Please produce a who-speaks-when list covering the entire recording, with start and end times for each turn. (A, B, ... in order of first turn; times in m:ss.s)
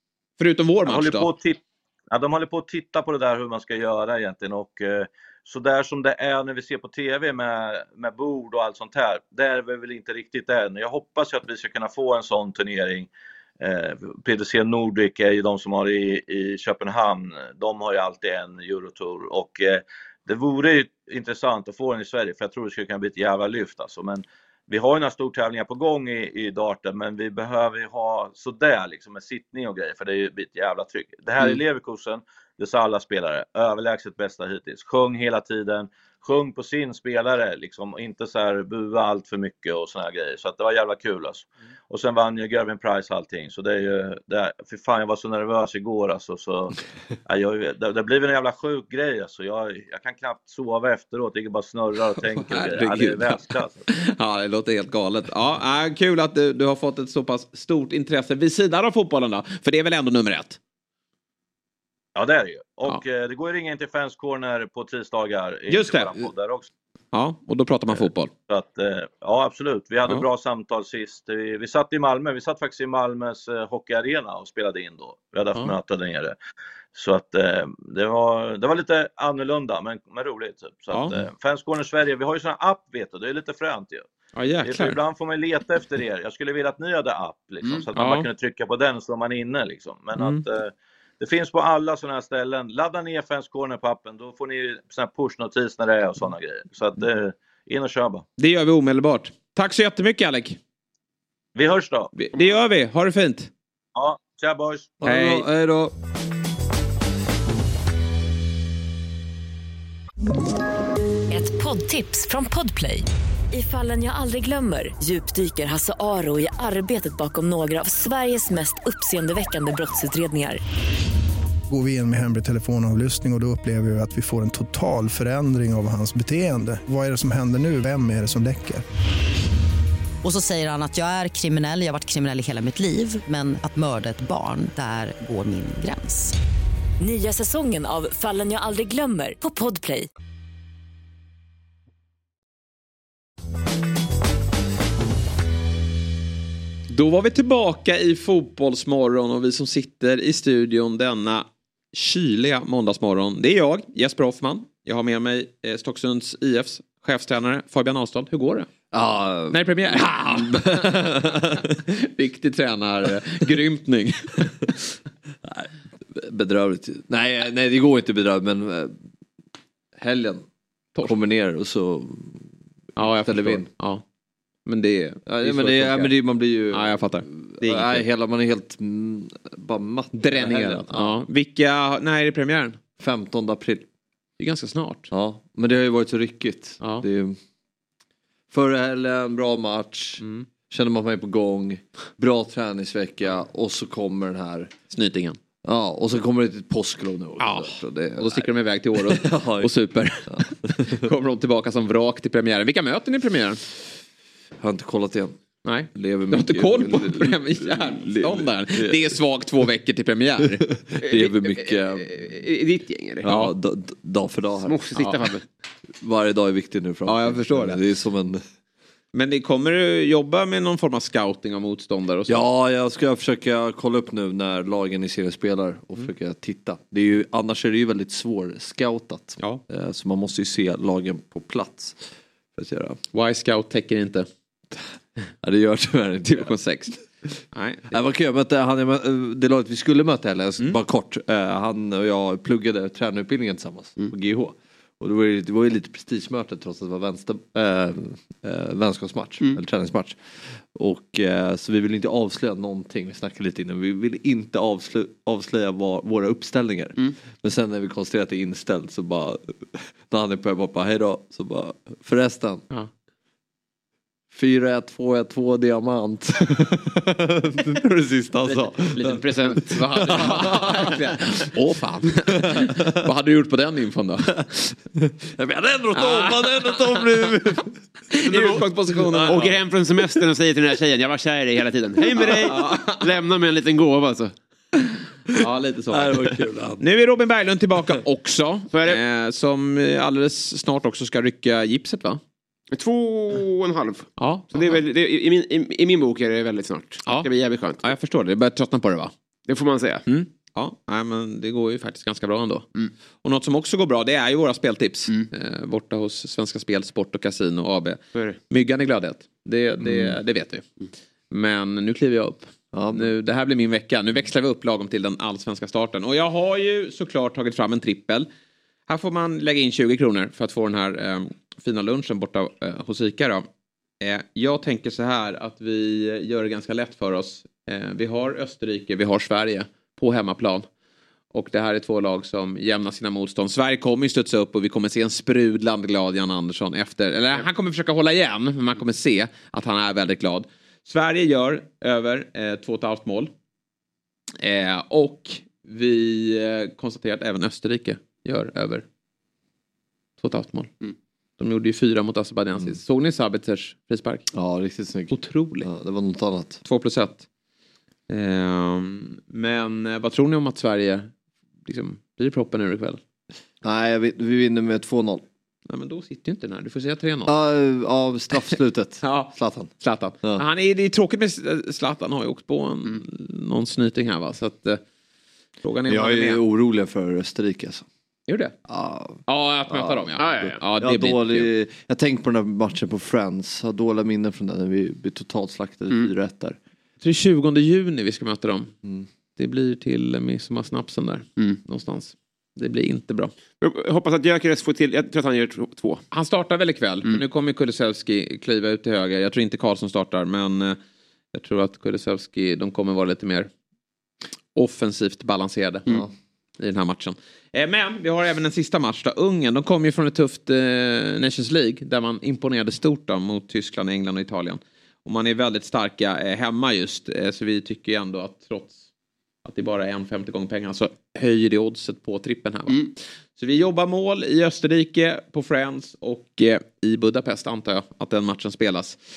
0:00.4-0:01.3 A
0:00.8-0:53.8 B
0:52.4-1:00.6 A
1:02.1-1:06.7 B
1:05.7-1:06.1 A
1:07.1-1:08.3 A
1:08.5-1:16.4 B
1:16.9-1:24.0 B
1:20.9-1:21.2 A
1:24.3-1:25.0 A
1:24.6-1:38.2 B
1:27.9-1:28.3 A
1:30.2-1:30.4 A
1:38.4-1:40.6 A
1:41.5-1:42.1 B
1:42.2-1:43.5 A
1:43.9-1:44.9 B
1:45.0-1:45.9 C
1:45.0-1:45.5 A
1:51.3-2:00.6 D
2:01.7-2:08.8 E
2:10.2-2:16.3 F
2:17.0-2:20.1 D
2:26.9-2:38.7 A
2:38.9-2:41.7 C
2:39.5-2:44.9 A
2:45.4-2:49.0 C
2:50.0-2:50.5 C
2:51.0-2:53.7 C
2:53.0-2:54.0 A
2:54.6-2:56.2 A
2:55.2-3:01.2 C
2:56.7-2:58.0 A
3:00.1-3:02.8 A
3:03.0-3:03.8 C
3:04.4-3:05.1 A
3:05.1-3:07.4 C
3:08.5-3:14.7 C
3:10.2-3:10.5 A
3:14.9-3:15.4 A
3:15.6-3:21.0 C
3:17.4-3:23.6 A
3:24.6-3:25.3 C
3:25.6-3:30.6 A
3:25.9-3:29.1 C
3:30.7-3:32.3 C
3:31.0-3:33.2 G
3:33.2-3:35.2 C
3:33.2-3:33.5 A
3:34.6-3:35.4 G
3:36.0-3:38.4 C
3:37.0-3:37.8 A
3:39.1-3:42.5 A
3:42.3-3:53.0 C
3:53.1-3:54.3 A
3:55.4-3:56.7 C
3:56.2-3:57.0 A
3:57.5-3:58.0 A
3:57.9-4:22.7 C
4:24.3-4:30.9 C
4:28.5-4:30.2 G
4:29.7-4:34.4 A
4:34.4-4:37.8 C
4:36.0-4:37.0 A
4:38.1-4:39.6 A
4:38.3-4:38.6 G
4:39.1-4:39.5 C
4:39.3-4:44.3 G
4:42.2-4:43.0 A
4:45.4-4:52.2 A
4:45.9-4:46.8 C
4:48.7-4:49.0 G
4:52.7-4:57.9 G
4:54.2-4:54.8 A
4:57.0-4:57.3 A
4:57.8-4:59.1 A
4:59.5-5:00.0 G
5:00.1-5:02.7 A
5:03.2-5:10.6 A
5:09.8-5:10.2 C
5:11.3-5:18.3 A
5:12.7-5:13.1 C
5:18.9-5:23.5 A
5:24.0-5:30.7 A
5:31.3-5:43.3 A
5:44.4-5:48.8 A
5:50.2-5:50.7 A
5:51.4-5:54.3 A
5:54.3-5:56.6 C
5:55.1-5:55.7 A
5:56.6-5:57.2 A
5:58.1-6:01.1 A
6:01.6-6:03.0 A
6:03.6-6:05.2 C
6:05.7-6:07.3 A
6:07.2-6:09.7 C
6:08.5-6:14.8 A
6:15.6-6:16.4 A
6:15.9-6:17.8 C
6:18.3-6:18.5 A
6:18.6-6:26.6 C
6:19.2-6:21.5 A
6:20.2-6:20.6 G
6:27.0-6:28.7 A
6:29.4-6:33.3 A
6:33.6-6:36.0 G
6:36.1-6:40.8 A
6:41.3-6:43.5 A
6:44.5-6:45.8 A
6:46.6-6:58.8 A
6:59.4-7:02.8 A
7:03.4-7:09.0 A